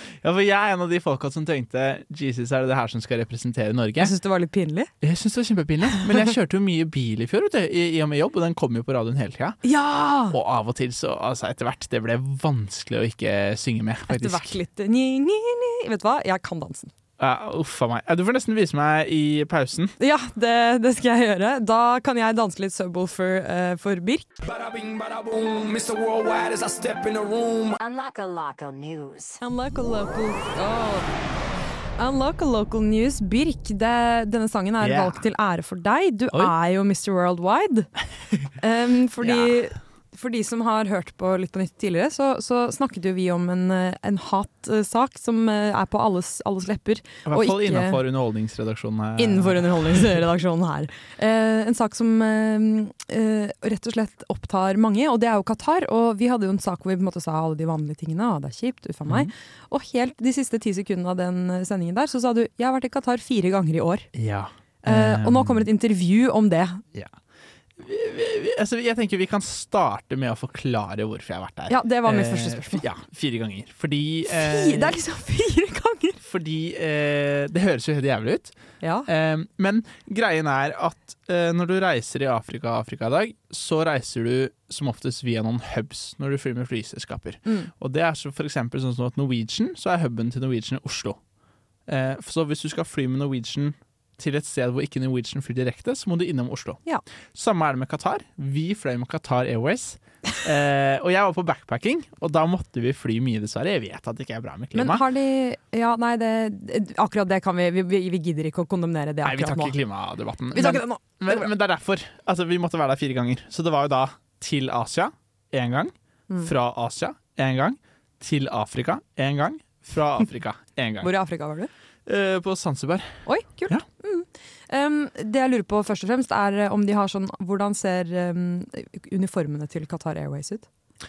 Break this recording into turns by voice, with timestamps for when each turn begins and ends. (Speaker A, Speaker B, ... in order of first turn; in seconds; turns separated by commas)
Speaker A: 0.2-4.1, Speaker B: 4.0-4.9, Speaker A: 5.0-9.6, Speaker B: 9.6-10.3, Speaker A: 10.3-14.6, Speaker B: 14.1-16.9, Speaker A: 17.2-19.9, Speaker B: 20.0-24.2, Speaker C: 24.4-29.4, Speaker B: 29.4-31.1, Speaker B: 32.0-37.9, Speaker A: 34.8-35.2, Speaker B: 38.5-48.0, Speaker A: 39.2-39.6, Speaker A: 47.2-50.2, Speaker B: 49.2-64.1, Speaker A: 64.1-65.6, Speaker B: 64.8-66.8, Speaker A: 67.8-75.0, Speaker B: 71.7-72.8, Speaker B: 74.3-76.2, Speaker A: 76.2-91.2, Speaker B: 78.8-79.1, Speaker A: 91.9-96.8, Speaker A: 97.3-105.0, Speaker B: 104.7-109.8, Speaker A: 109.2-121.1, Speaker B: 110.5-111.5, Speaker B: 121.0-121.7, Speaker A: 122.0-123.8, Speaker B: 123.2-130.7